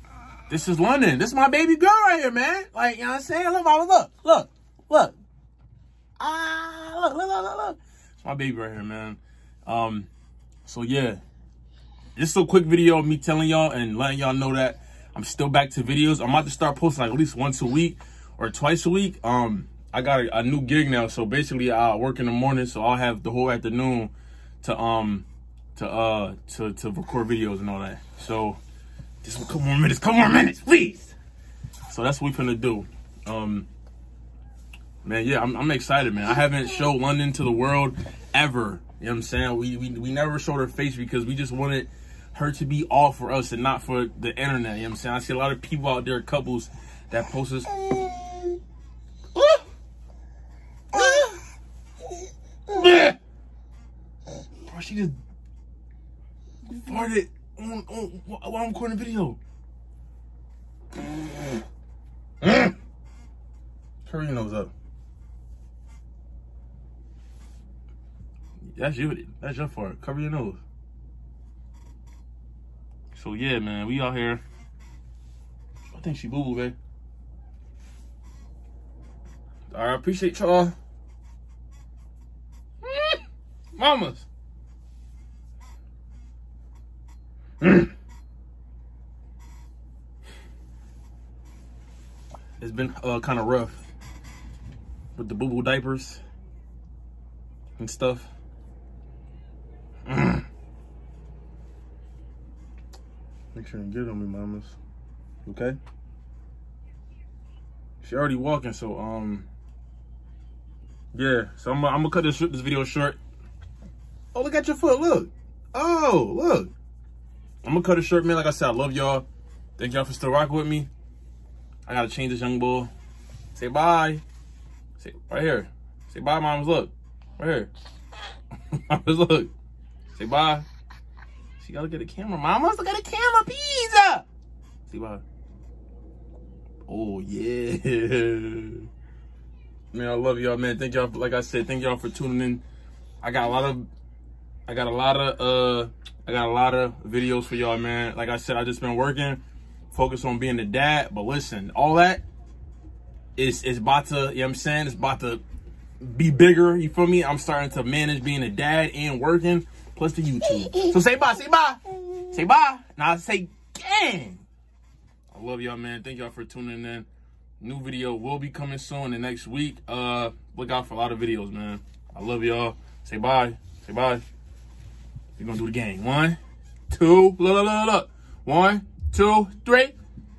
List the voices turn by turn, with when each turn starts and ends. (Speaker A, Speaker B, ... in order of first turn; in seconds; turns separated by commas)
Speaker A: 0.5-5.2, Speaker A: 6.2-10.1, Speaker A: 10.7-11.2, Speaker A: 12.2-28.6, Speaker A: 29.2-31.1, Speaker A: 31.9-33.7, Speaker A: 35.0-48.2, Speaker A: 49.4-49.6, Speaker A: 50.9-51.4, Speaker A: 52.7-53.2, Speaker A: 54.6-55.2, Speaker A: 56.7-59.4, Speaker A: 62.4-62.8, Speaker A: 64.0-64.7, Speaker A: 68.7-70.6, Speaker A: 73.1-74.4, Speaker A: 75.9-76.8, Speaker A: 79.7-80.8, Speaker A: 82.8-83.2, Speaker A: 83.8-84.2, Speaker A: 87.6-87.9, Speaker A: 92.6-93.9, Speaker A: 95.2-96.2, Speaker A: 97.8-98.3, Speaker A: 100.1-100.5, Speaker A: 103.5-104.8, Speaker A: 105.5-105.8, Speaker A: 108.0-109.5, Speaker A: 111.1-113.2, Speaker A: 114.3-116.7, Speaker A: 117.6-119.2, Speaker A: 119.8-120.9, Speaker A: 121.9-122.9, Speaker A: 123.5-124.2, Speaker A: 125.0-127.7, Speaker A: 128.7-129.5, Speaker A: 130.2-130.7, Speaker A: 131.6-134.3, Speaker A: 134.9-135.2, Speaker A: 136.9-138.9, Speaker A: 139.9-142.6, Speaker A: 143.2-143.9, Speaker A: 144.7-152.2, Speaker A: 153.4-155.4, Speaker A: 156.0-164.4, Speaker A: 165.3-167.1, Speaker A: 167.6-174.2, Speaker A: 175.4-179.9